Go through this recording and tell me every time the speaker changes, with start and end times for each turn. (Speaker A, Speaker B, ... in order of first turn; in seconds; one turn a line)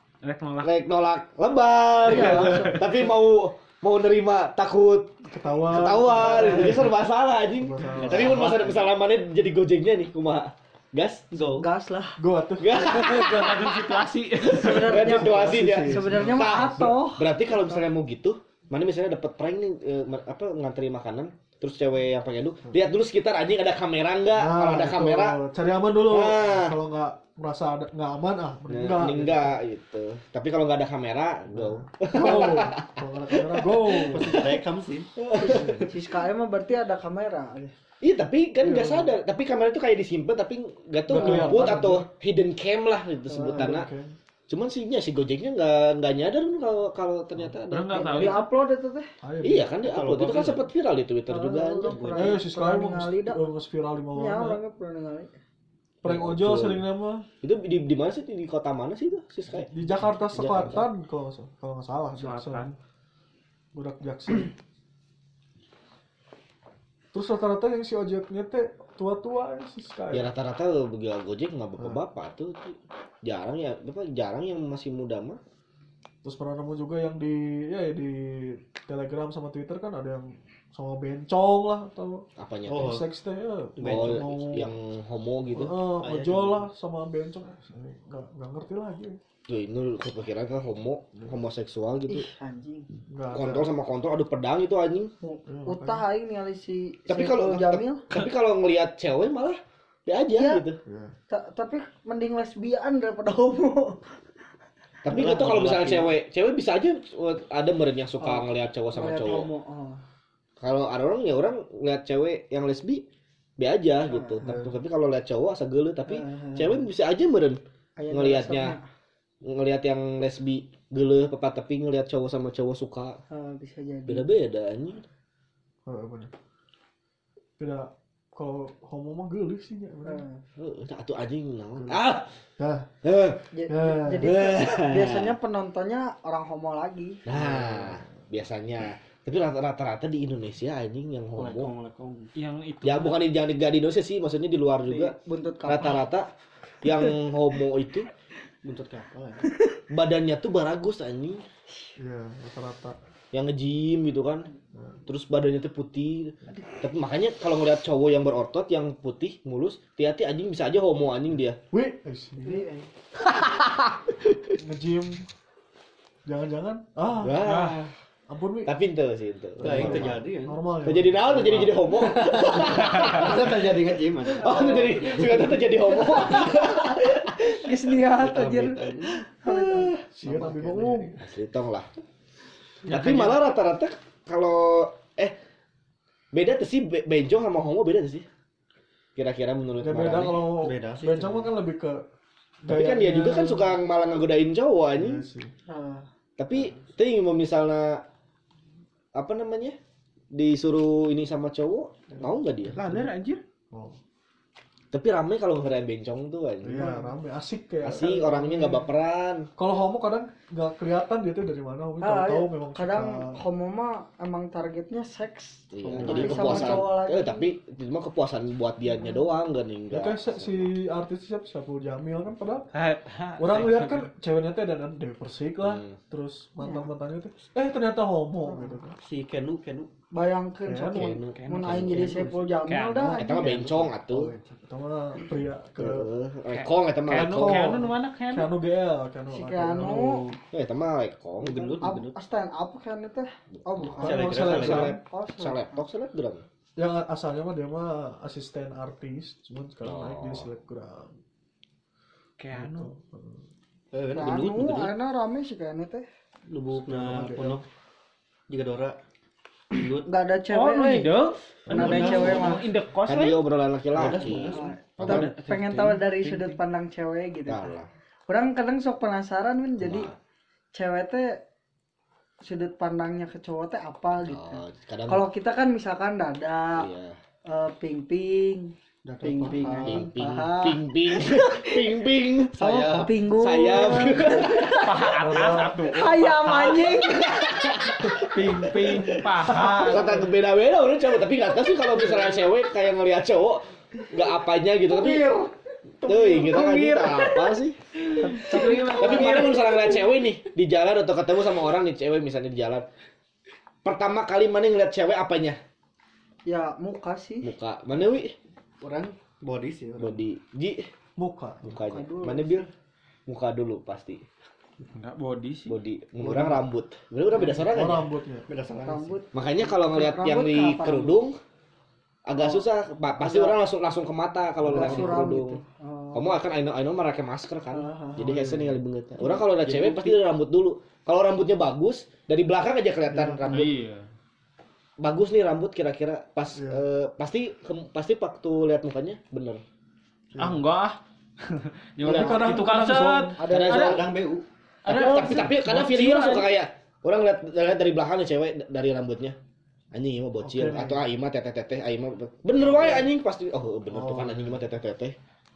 Speaker A: 0.2-0.7
Speaker B: 0.6-5.1
Speaker C: 2.0-3.1
Speaker A: 2.1-2.8
Speaker D: 5.3-6.9
Speaker B: 5.7-11.3
Speaker C: 6.1-6.8
Speaker D: 7.6-8.6
Speaker E: 7.9-8.8
Speaker C: 11.3-12.2
Speaker E: 11.3-11.6
Speaker D: 12.2-13.3
Speaker B: 12.6-14.0
Speaker C: 12.7-13.4
Speaker A: 13.1-15.1
Speaker C: 14.4-17.9
Speaker B: 14.6-25.4
Speaker D: 14.9-16.9
Speaker D: 24.3-29.5
Speaker B: 26.0-26.8
Speaker B: 28.7-34.5
Speaker D: 31.5-34.5
Speaker E: 34.1-35.1
Speaker B: 35.2-35.9
Speaker C: 35.4-37.7
Speaker D: 35.5-35.8
Speaker B: 38.0-43.9
Speaker D: 38.6-39.1
Speaker D: 41.1-42.1
Speaker C: 43.3-43.8
Speaker D: 43.4-44.1
Speaker B: 44.5-48.4
Speaker A: 47.7-48.5
Speaker C: 47.9-49.1
Speaker D: 49.2-49.7
Speaker B: 49.4-52.2
Speaker E: 49.8-50.7
Speaker C: 51.3-53.4
Speaker E: 51.9-52.4
Speaker D: 52.1-54.6
Speaker C: 54.1-55.4
Speaker D: 56.0-57.3
Speaker B: 56.0-56.8
Speaker B: 57.4-59.7
Speaker D: 59.5-62.6
Speaker B: 60.3-60.9
Speaker A: 62.1-62.8
Speaker D: 63.7-64.5
Speaker D: 67.1-70.3
Speaker B: 70.1-75.4
Speaker D: 76.2-82.2
Speaker B: 82.4-82.9
Speaker E: 82.7-83.1
Speaker D: 82.8-84.7
Speaker E: 83.8-84.3
Speaker B: 83.8-85.8
Speaker D: 85.5-89.2
Speaker E: 86.0-86.7
Speaker B: 89.5-92.3
Speaker C: 92.1-92.9
Speaker D: 93.1-93.7
Speaker B: 93.3-95.1
Speaker C: 95.2-98.0
Speaker D: 95.5-96.0
Speaker B: 97.1-100.8
Speaker C: 100.4-100.6
Speaker D: 100.8-101.1
Speaker C: 101.3-104.1
Speaker B: 105.0-109.5
Speaker E: 105.1-106.1
Speaker C: 108.2-110.0
Speaker B: 110.6-113.0
Speaker B: 113.6-118.8
Speaker C: 114.1-114.5
Speaker D: 114.4-114.7
Speaker C: 116.1-116.8
Speaker C: 118.0-118.8
Speaker B: 119.4-123.2
Speaker C: 123.3-124.3
Speaker B: 124.0-125.0
Speaker D: 125.8-126.3
Speaker D: 127.6-130.2
Speaker C: 130.0-130.4
Speaker B: 130.6-132.3
Speaker D: 132.6-132.9
Speaker B: 133.0-133.4
Speaker C: 133.5-137.2
Speaker D: 133.7-134.2
Speaker B: 134.2-135.4
Speaker B: 137.2-141.7
Speaker D: 137.3-138.1
Speaker E: 141.3-142.3
Speaker A: 142.3-143.2
Speaker B: 142.8-146.3
Speaker C: 144.9-146.0
Speaker B: 146.8-148.1
Speaker E: 148.6-149.4
Speaker B: 149.9-151.4
Speaker D: 152.0-153.0
Speaker B: 153.3-154.5
Speaker B: 155.1-161.6
Speaker D: 161.7-162.7
Speaker C: 162.4-162.8
Speaker B: 163.3-164.4
Speaker D: 164.6-165.2
Speaker D: 166.2-167.4
Speaker B: 167.2-167.9
Speaker A: 167.4-167.8
Speaker D: 168.3-168.7
Speaker B: 168.6-170.2
Speaker D: 169.6-171.8
Speaker E: 169.6-170.6
Speaker B: 170.8-173.6
Speaker E: 171.9-176.2
Speaker A: 172.9-173.2
Speaker B: 174.2-177.8
Speaker C: 174.4-180.0
Speaker E: 178.2-179.2
Speaker B: 179.5-179.8
Speaker D: 180.1-181.2
Speaker E: 180.2-181.1
Speaker C: 180.6-181.1
Speaker B: 181.2-181.9
Speaker B: 182.9-185.3
Speaker A: 182.9-183.4
Speaker B: 186.3-188.2
Speaker B: 189.2-190.5
Speaker D: 189.8-192.0
Speaker E: 190.5-191.5
Speaker D: 192.6-193.7
Speaker B: 192.7-195.2
Speaker D: 194.9-195.5
Speaker C: 195.7-196.1
Speaker B: 196.4-198.0
Speaker B: 199.1-199.8
Speaker B: 200.3-202.8
Speaker D: 202.1-203.1
Speaker A: 202.7-203.4
Speaker D: 203.7-204.0
Speaker B: 204.9-206.9
Speaker D: 206.6-208.9
Speaker C: 206.8-207.2
Speaker B: 207.8-209.5
Speaker D: 209.6-213.4
Speaker C: 212.0-217.5
Speaker B: 215.7-220.7
Speaker D: 215.9-216.8
Speaker C: 218.9-219.3
Speaker D: 219.9-222.7
Speaker A: 222.7-224.1
Speaker D: 223.4-228.9
Speaker B: 225.6-226.0
Speaker C: 226.6-226.9
Speaker C: 228.4-228.8
Speaker E: 229.0-229.9
Speaker C: 230.1-233.8
Speaker D: 230.7-231.2
Speaker B: 230.9-232.3
Speaker A: 231.3-233.4
Speaker B: 233.2-234.3
Speaker D: 233.5-236.1
Speaker B: 235.8-237.8
Speaker A: 236.5-238.5
Speaker D: 237.1-240.4
Speaker C: 239.3-240.2
Speaker B: 240.5-241.8
Speaker E: 241.4-242.2
Speaker C: 241.8-245.8
Speaker B: 243.6-246.4
Speaker D: 244.0-245.0
Speaker E: 244.0-244.9
Speaker D: 246.8-251.2
Speaker B: 249.8-250.5
Speaker A: 252.4-252.9
Speaker D: 252.5-253.4
Speaker E: 253.9-254.9
Speaker C: 254.1-256.1
Speaker E: 256.5-257.6
Speaker D: 256.8-257.6
Speaker E: 258.5-258.9
Speaker E: 259.7-260.1
Speaker C: 260.0-261.2
Speaker A: 260.5-263.4
Speaker D: 261.7-262.2
Speaker C: 261.7-262.6
Speaker E: 261.8-262.6
Speaker B: 263.1-265.3
Speaker E: 263.9-264.7
Speaker C: 264.4-267.7
Speaker A: 265.0-266.6
Speaker B: 267.5-267.9
Speaker C: 268.3-270.1
Speaker B: 269.8-270.1
Speaker C: 270.7-271.4
Speaker C: 272.4-276.9
Speaker B: 274.2-275.2
Speaker B: 276.8-277.2
Speaker C: 277.5-281.9
Speaker D: 279.1-279.6
Speaker E: 279.2-280.1
Speaker B: 279.8-282.8
Speaker E: 282.5-283.1
Speaker C: 282.6-285.2
Speaker B: 283.3-284.9
Speaker A: 284.7-287.1
Speaker D: 285.2-285.8
Speaker C: 285.9-287.6
Speaker B: 286.9-295.4
Speaker A: 288.2-290.2
Speaker D: 289.6-290.0
Speaker C: 294.9-295.5
Speaker C: 296.0-296.6
Speaker B: 296.0-297.8
Speaker A: 296.3-297.5
Speaker C: 298.2-300.1
Speaker A: 298.3-299.7
Speaker B: 298.5-302.9
Speaker B: 303.8-305.6
Speaker C: 306.4-307.5
Speaker B: 307.4-308.3
Speaker E: 308.8-310.2
Speaker B: 310.0-310.9
Speaker D: 311.2-311.7
Speaker B: 311.6-312.7
Speaker C: 311.8-312.6
Speaker B: 313.3-314.2
Speaker A: 314.8-315.8
Speaker B: 315.7-318.1
Speaker D: 316.2-316.6
Speaker D: 317.7-318.5
Speaker E: 318.5-319.2
Speaker C: 318.8-321.2
Speaker B: 319.3-321.4
Speaker B: 322.2-325.6
Speaker C: 322.4-322.6
Speaker C: 323.2-323.6
Speaker C: 324.6-326.4
Speaker B: 326.1-333.7
Speaker C: 327.7-328.4
Speaker D: 328.2-328.8
Speaker E: 329.2-330.2
Speaker D: 333.1-333.6
Speaker A: 333.4-334.1
Speaker B: 335.0-339.6
Speaker D: 336.5-336.8
Speaker A: 340.4-344.0
Speaker B: 342.0-342.6
Speaker D: 342.0-343.4
Speaker C: 343.4-344.0
Speaker B: 343.4-344.0
Speaker E: 343.7-344.4
Speaker A: 344.8-346.5
Speaker B: 344.9-349.4
Speaker B: 349.9-355.1
Speaker D: 350.4-351.0
Speaker D: 353.9-354.6